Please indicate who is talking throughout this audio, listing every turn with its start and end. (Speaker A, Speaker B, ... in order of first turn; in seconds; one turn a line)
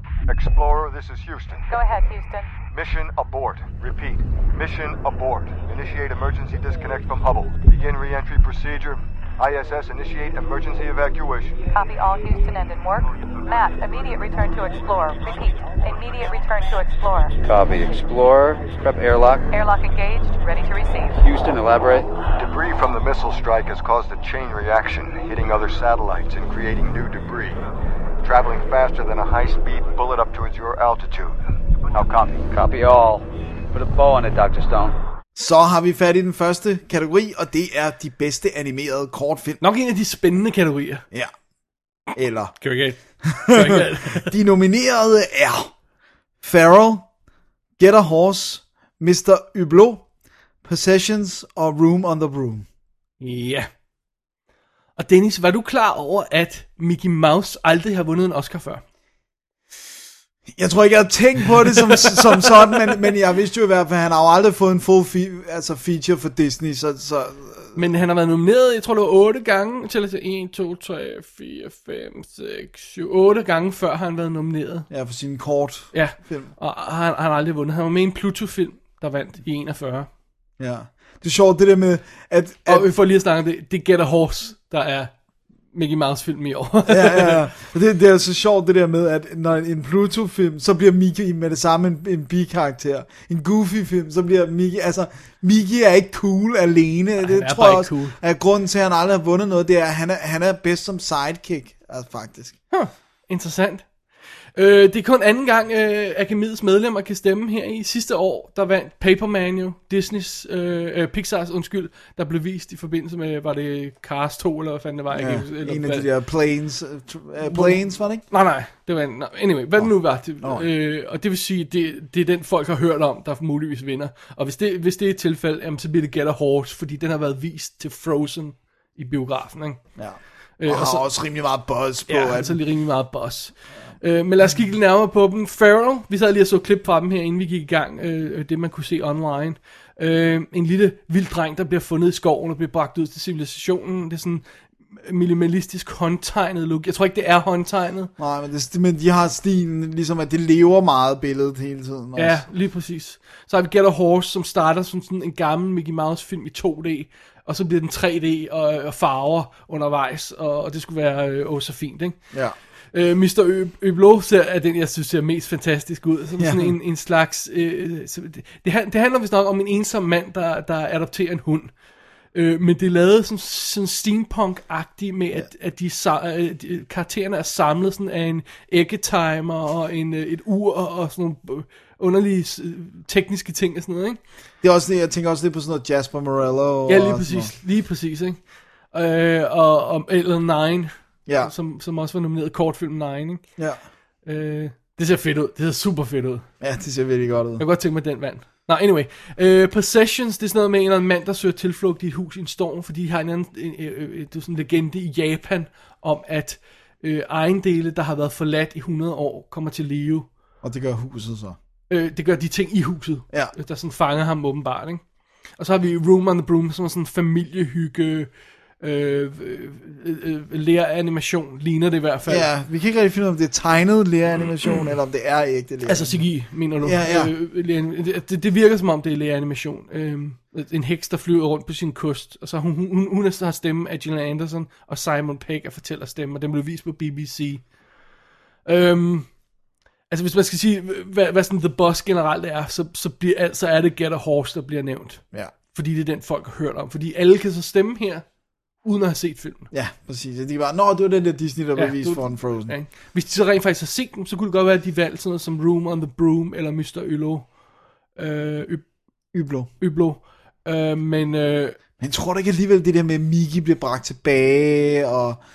Speaker A: 0.2-1.7
Speaker B: 1.7-2.5
Speaker A: 2.7-11.6
Speaker B: 11.7-17.4
Speaker C: 17.4-19.4
Speaker B: 19.5-21.2
Speaker C: 21.1-22.1
Speaker A: 22.3-27.6
Speaker A: 28.2-31.4
Speaker C: 31.9-35.0
Speaker A: 31.9-32.4
Speaker D: 35.4-39.6
Speaker E: 39.6-41.0
Speaker D: 42.1-42.5
Speaker E: 42.6-44.3
Speaker D: 43.2-45.7
Speaker D: 46.4-47.1
Speaker D: 47.8-50.0
Speaker D: 50.6-52.6
Speaker E: 53.2-53.7
Speaker E: 55.0-58.8
Speaker D: 60.5-67.8
Speaker E: 61.8-62.8
Speaker E: 67.7-74.9
Speaker D: 74.9-76.5
Speaker E: 75.9-80.1
Speaker D: 80.6-82.9
Speaker E: 82.7-85.1
Speaker E: 85.7-87.4
Speaker D: 86.9-102.6
Speaker E: 97.2-98.2
Speaker E: 102.7-103.9
Speaker E: 104.5-116.1
Speaker D: 115.1-118.2
Speaker E: 117.4-129.8
Speaker D: 119.8-120.6
Speaker D: 129.9-132.6
Speaker E: 130.6-131.0
Speaker E: 132.1-144.4
Speaker E: 145.0-148.1
Speaker D: 148.2-152.4
Speaker E: 152.2-162.2
Speaker E: 162.9-171.7
Speaker D: 166.4-166.7
Speaker E: 172.3-184.2
Speaker D: 184.6-187.5
Speaker E: 186.9-188.4
Speaker E: 188.9-193.4
Speaker D: 191.3-191.5
Speaker E: 194.2-196.4
Speaker D: 196.6-197.6
Speaker E: 197.6-210.3
Speaker D: 210.6-211.6
Speaker E: 211.9-215.0
Speaker E: 215.6-218.3
Speaker E: 218.8-222.4
Speaker D: 222.3-226.2
Speaker E: 225.8-237.6
Speaker D: 226.8-227.3
Speaker E: 238.7-239.3
Speaker E: 240.1-248.2
Speaker E: 248.8-249.7
Speaker D: 249.7-252.7
Speaker E: 251.8-257.5
Speaker E: 258.1-258.8
Speaker D: 259.3-259.7
Speaker E: 259.8-261.8
Speaker D: 262.0-265.4